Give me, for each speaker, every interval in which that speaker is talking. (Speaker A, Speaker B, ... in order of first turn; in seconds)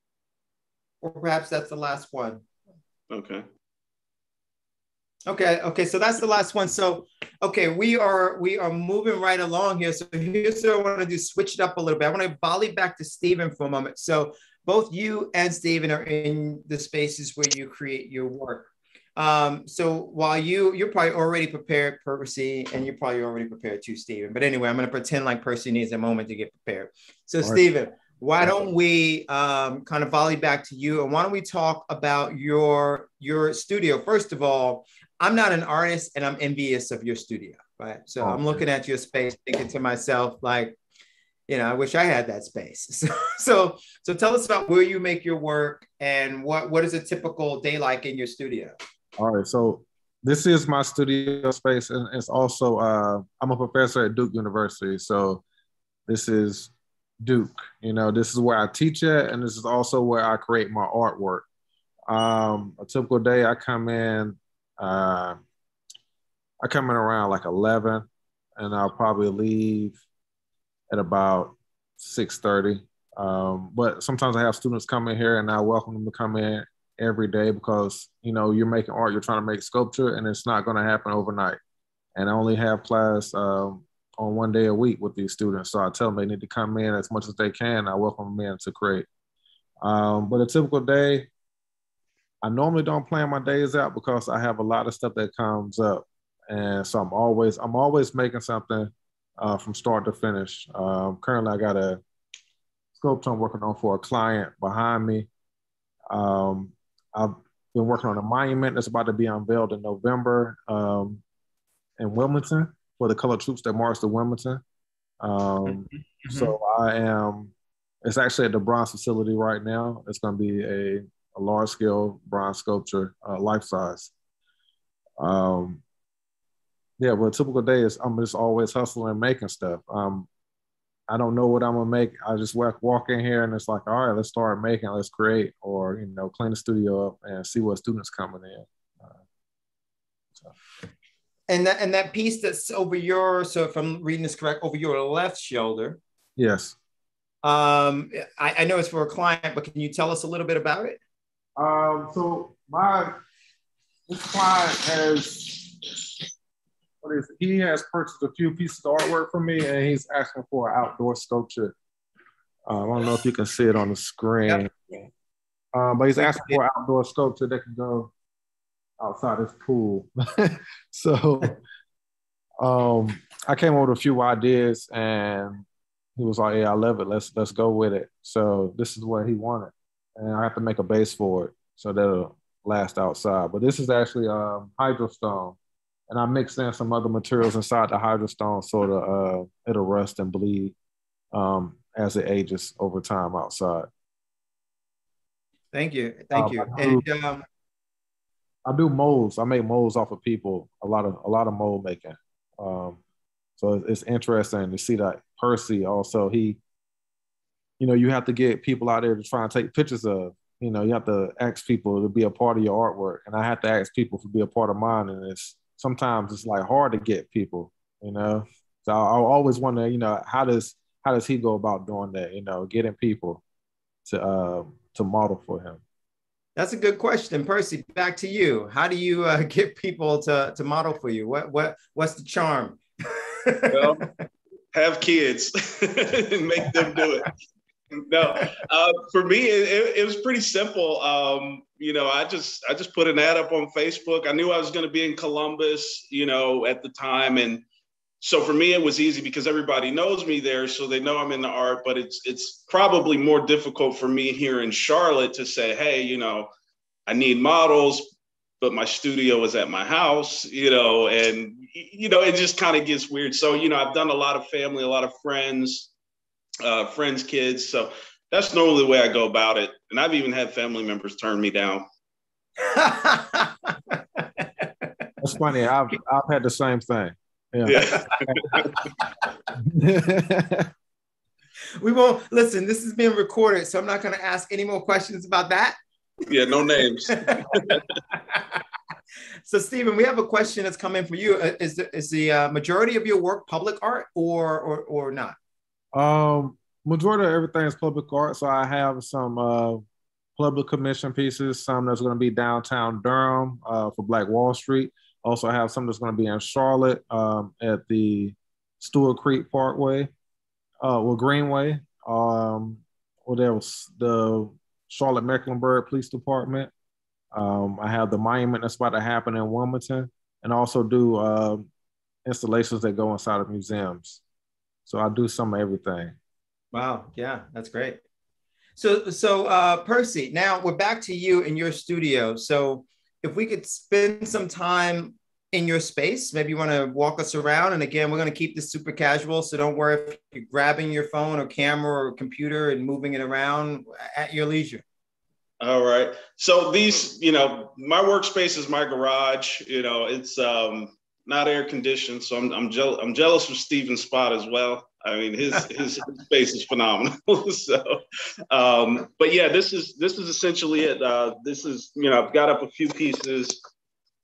Speaker A: 1.0-2.4, 5.3-40.8, 41.5-48.7, 115.7-116.5, 141.5-146.0, 147.4-151.0, 166.1-166.6, 195.7-197.4, 226.6-234.1, 236.7-237.0, 272.6-274.9, 281.8-285.8, 287.1-288.6, 289.4-295.4, 326.7-328.0, 328.8-344.8
Speaker B: 3.1-3.5, 233.7-234.1, 234.7-237.3, 238.0-247.6, 248.2-256.5, 257.1-258.1, 258.6-265.9, 266.6-271.8, 277.6-278.9, 286.3-287.8, 345.6-363.6
Speaker C: 38.2-38.6, 49.2-55.4, 56.1-61.5, 62.1-65.4, 66.6-68.1, 68.6-70.0, 70.9-81.6, 82.2-89.1, 89.8-91.3, 92.4-102.0, 103.0-105.3, 106.1-111.2, 112.0-114.6, 115.2-117.5, 118.0-124.1, 125.2-125.8, 127.0-130.3, 131.1-139.2, 146.4-146.8, 151.6-153.1, 154.1-156.2, 157.0-161.7, 162.7-165.1, 165.7-168.1, 169.0-171.6, 172.6-175.6, 176.2-185.6, 186.1-190.7, 191.3-193.9, 196.3-197.0, 198.7-203.0, 203.6-206.6, 207.8-223.4, 224.0-225.8, 275.2-278.4, 279.6-280.7, 295.9-299.8, 300.4-310.1, 310.8-316.7, 317.3-321.7, 322.2-324.2, 324.9-326.1